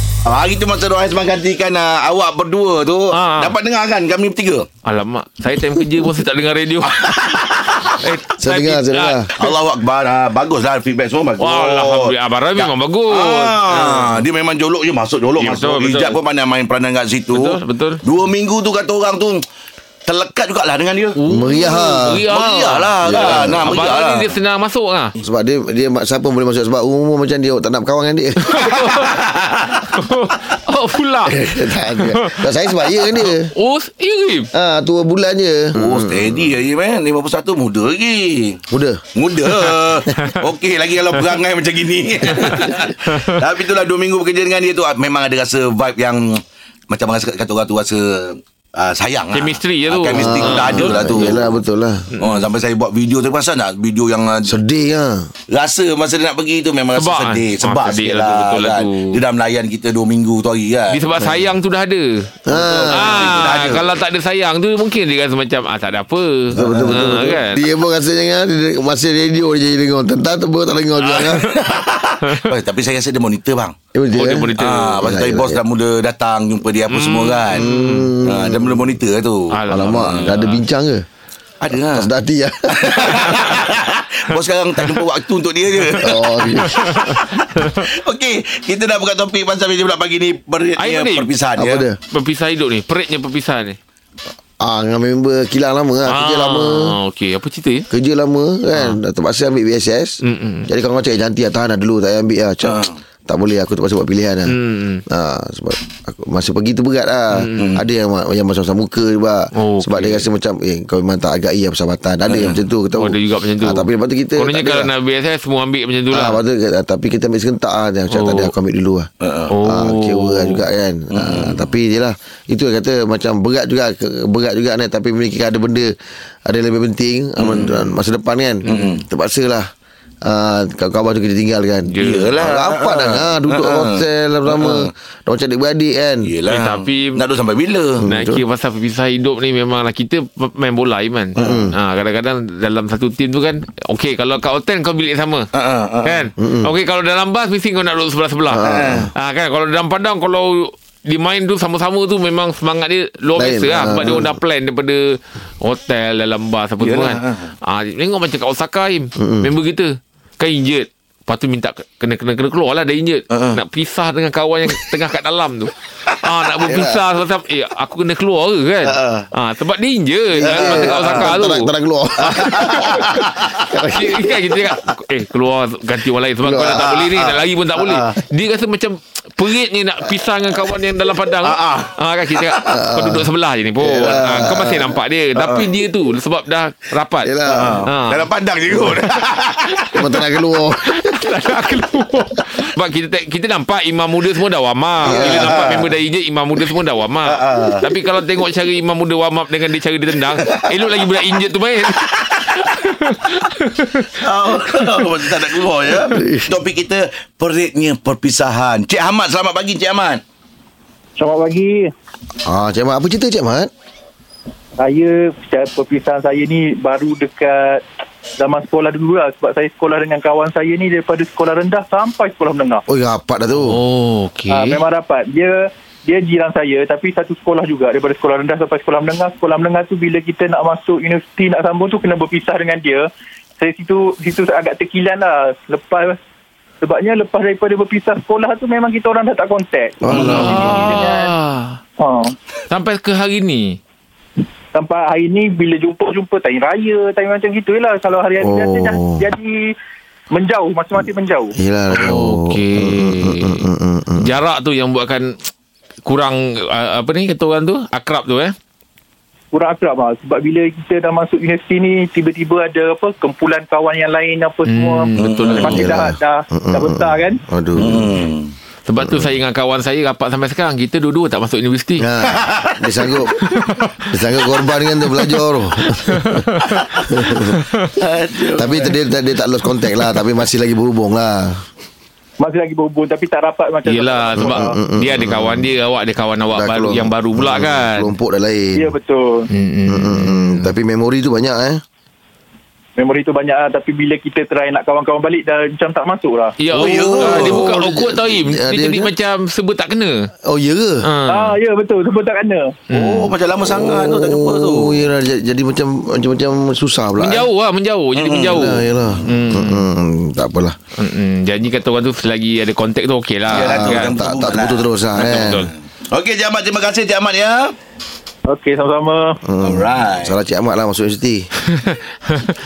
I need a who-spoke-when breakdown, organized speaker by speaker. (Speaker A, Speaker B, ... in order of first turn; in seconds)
Speaker A: 0.3-4.7, 6.8-8.0, 9.4-19.4, 20.1-21.2, 22.3-24.4, 28.5-29.9, 35.8-38.6, 39.1-51.5, 52.2-54.5, 55.5-61.0, 62.5-63.9, 71.0-73.8, 74.6-77.7, 78.2-80.3, 81.6-82.1, 82.8-91.9, 102.6-103.0, 107.5-107.9, 112.3-112.7, 119.2-119.5, 121.1-121.7, 127.4-127.9, 128.7-129.0, 132.0-134.9, 136.2-138.1, 141.4-141.6, 145.5-146.3, 148.6-149.1, 156.8-157.5, 163.3-163.6, 170.4-171.3, 172.3-173.5, 176.7-178.0, 181.3-182.8, 185.4-185.7, 187.5-189.9, 195.1-195.9, 197.3-197.8, 200.4-200.7, 202.0-202.7, 204.2-210.2, 265.2-265.9, 267.8-268.5, 272.2-273.6, 277.9-278.9, 296.7-297.7, 302.9-305.0, 308.1-309.3, 313.5-317.7, 319.6-320.4
Speaker B: 3.1-3.5, 4.9-7.0, 8.0-9.5, 11.4-14.2, 15.4-16.2, 17.3-18.0, 21.2-25.1, 28.4-29.2, 29.9-32.4, 33.0-34.5, 39.6-40.4, 42.3-43.3, 49.3-51.5, 52.1-52.4, 57.0-59.2, 60.9-62.3, 62.9-67.6, 72.2-72.5, 74.1-75.0, 76.9-78.1, 79.5-80.6, 83.3-83.6, 85.9-87.7, 90.8-91.3, 92.1-93.8, 96.1-97.9, 98.7-99.0, 100.2-100.7, 104.5-105.0, 107.3-107.7, 109.5-110.3, 113.0-116.4, 118.1-118.5, 119.5-120.6, 128.6-129.0, 131.9-132.3, 136.5-137.2, 138.1-145.5, 146.1-173.0, 173.9-187.3, 187.9-188.3, 189.8-190.1, 190.8-204.1, 223.6-224.8, 240.1-241.8, 242.7-243.8, 251.9-253.7, 254.2-255.5, 256.1-258.6, 264.7-265.9, 268.9-272.1, 273.3-274.1, 275.2-277.7, 283.9-288.1, 289.5-290.7, 296.6-300.3, 301.0-301.6, 302.9-303.3, 307.2-309.9, 311.0-314.1, 315.2-315.7, 321.9-322.5
Speaker C: 8.4-9.3, 21.3-22.3, 23.0-23.7, 25.2-28.4, 31.3-33.5, 34.5-36.5, 38.7-39.0, 50.1-52.1, 54.5-55.3, 62.5-63.7, 66.5-71.5, 73.9-75.6, 77.5-78.9, 79.7-81.0, 81.8-83.3, 85.9-87.0, 91.5-92.0, 94.6-97.0, 97.9-104.6, 105.1-114.9, 116.1-119.1, 119.6-125.9, 126.5-129.7, 130.3-136.3, 138.0-138.4, 141.4-141.8, 146.4-146.7, 148.5-149.1, 153.4-154.3, 159.2-159.5, 166.6-167.0, 168.8-169.3, 170.4-174.6, 176.4-176.9, 182.7-183.3, 183.8-185.0, 187.2-187.9, 189.9-191.2, 195.1-195.7, 206.1-206.5, 212.4-213.7, 222.9-223.8, 240.0-240.5, 248.4-249.3, 251.6-254.3, 265.6-268.2, 269.0-269.4, 272.0-273.3, 274.1-277.6, 278.6-281.6, 284.4-285.7, 286.5-288.9, 289.9-291.8, 297.1-299.1, 300.5-301.1, 303.6-307.5, 308.4-310.8, 313.5-315.7, 319.5-321.5
Speaker D: 211.2-211.9, 214.8-217.8, 218.4-222.8, 224.5-233.1, 233.6-236.2, 236.8-241.3, 242.0-242.3, 244.8-249.7, 250.3-251.5, 259.5-267.4, 282.4-284.7, 288.8-289.5, 293.0-296.9, 301.3-302.8, 318.5-319.4